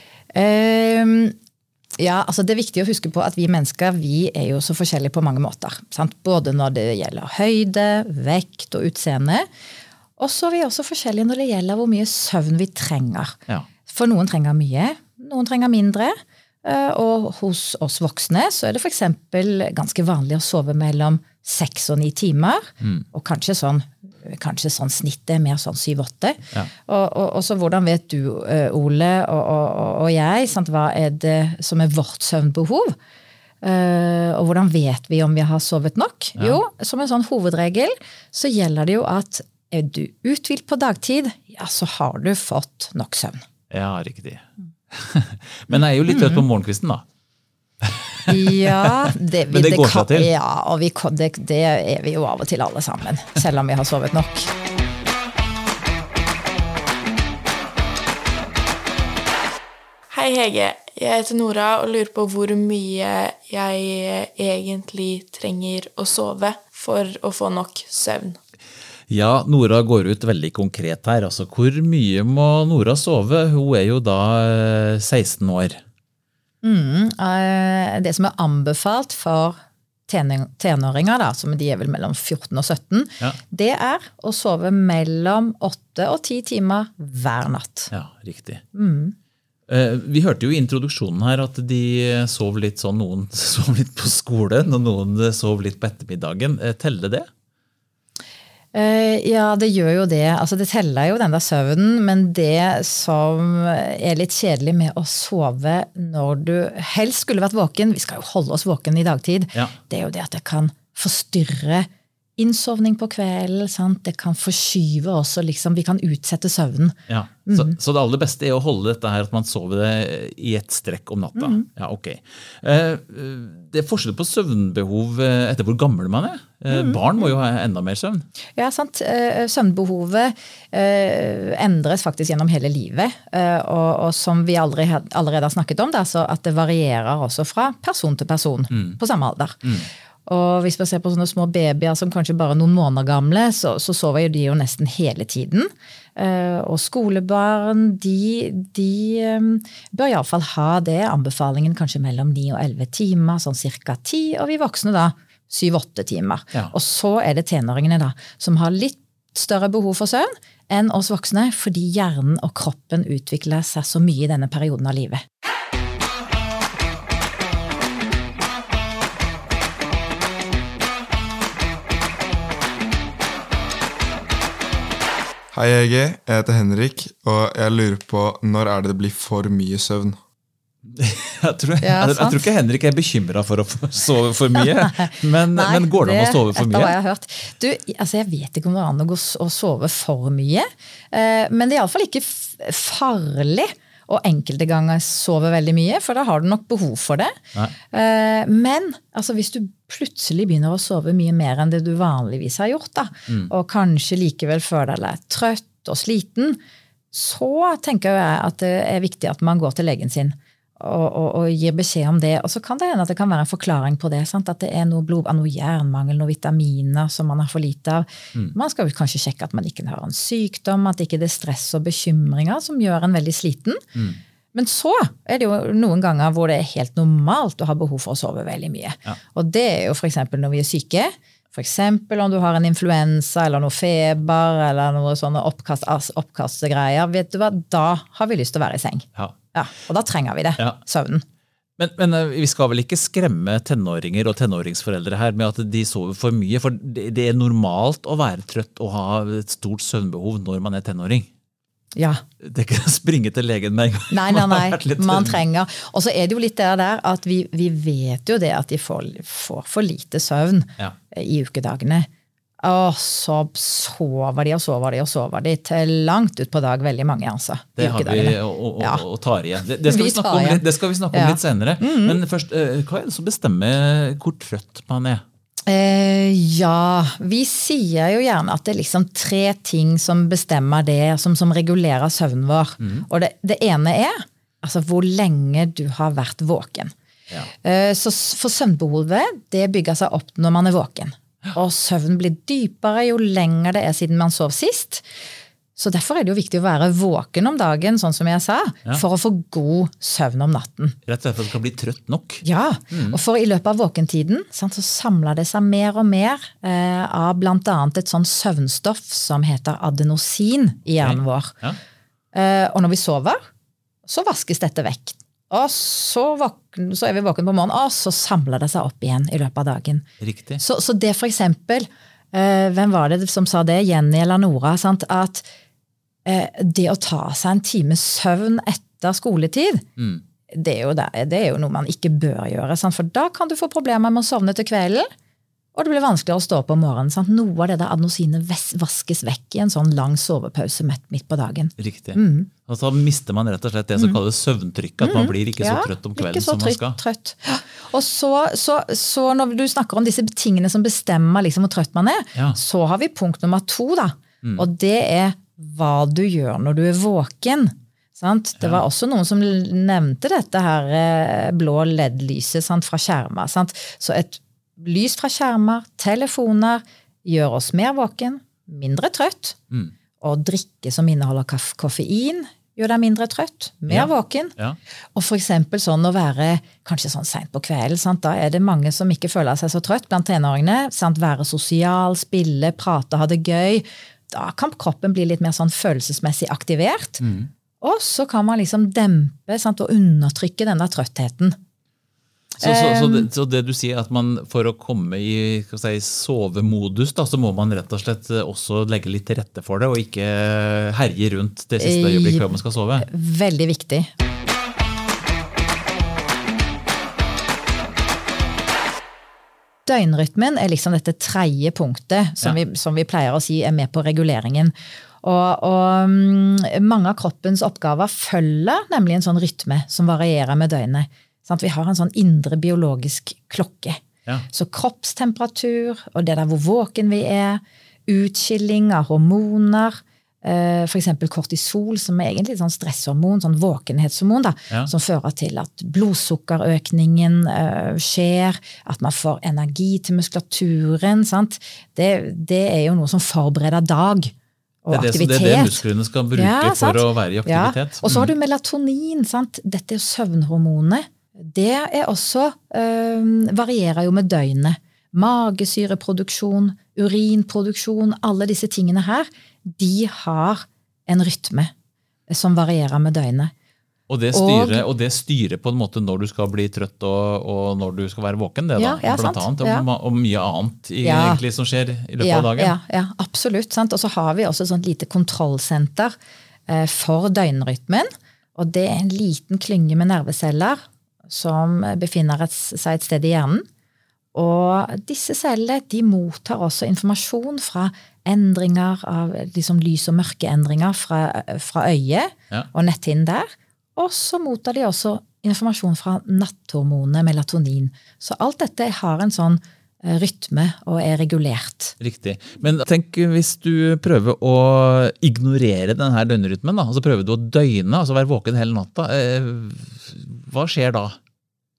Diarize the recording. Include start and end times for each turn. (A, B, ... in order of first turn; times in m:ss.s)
0:00.3-0:01.4 A
0:02.0-0:09.5 A
0:10.2-0:13.4 A
0:13.9-0:33.0 A
0:33.6-0:43.4 A
0:43.7-0:47.0 B
0:45.7-0:46.4 A
0:47.8-0:50.3 B
0:48.3-0:54.5 A
1:00.1-1:08.4 C
1:09.1-1:15.8 B
1:16.6-1:27.9 A
1:27.9-1:28.6 B
1:28.7-1:29.2 A
1:29.7-1:37.3 B
1:38.7-1:57.8 A
1:57.1-2:08.3 B
2:01.4-2:01.6 A
2:06.7-2:07.0 A
2:08.6-2:19.7 A
2:18.7-2:19.0 B
2:20.3-2:45.2 A
2:55.5-3:00.2 D
3:00.8-3:07.0 B
3:01.8-3:02.5 A
3:04.6-3:17.4 A
3:17.9-3:26.6 A
3:27.1-3:43.8 A
3:44.0-3:44.2 B
3:44.5-4:01.2 A
4:01.8-4:11.3 B
4:12.0-4:12.2 A
4:12.4-4:15.4 B
4:14.1-4:22.1 A
4:22.6-4:29.0 A
4:27.8-4:35.2 B
4:29.9-4:32.2 A
4:35.7-4:46.9 A
4:42.8-4:43.1 B
4:47.6-4:55.0 A
4:55.8-5:01.0 A
5:01.1-5:03.2 B
5:02.4-5:11.5 A
5:11.0-5:11.8 B
5:12.3-5:13.4 A
5:14.1-5:20.1 A
5:20.2-5:20.6 B
5:20.6-5:25.4 A
5:26.3-5:29.8 A
5:30.0-5:30.2 B
5:30.5-5:35.1 A
5:35.8-5:42.5 A
5:41.8-5:47.0 B
5:45.0-6:09.6 A
6:10.2-6:14.6 A
6:13.9-6:14.8 B
6:15.2-6:27.2 A
6:27.2-6:27.5 B
6:27.8-6:31.6 A
6:32.6-6:33.3 A
6:32.6-6:43.1 B
6:41.8-6:44.1 A
6:49.9-7:24.3 A
7:24.8-7:25.8 A
7:24.9-7:28.3 B
7:26.3-7:41.7 A
7:42.3-7:43.5 A
7:44.1-7:52.8 B
7:44.3-7:44.8 A
7:48.8-7:49.8 A
7:51.0-7:51.4 A
7:52.2-7:56.2 A
7:56.7-8:03.7 A
8:04.3-8:22.0 A
8:22.0-8:31.2 B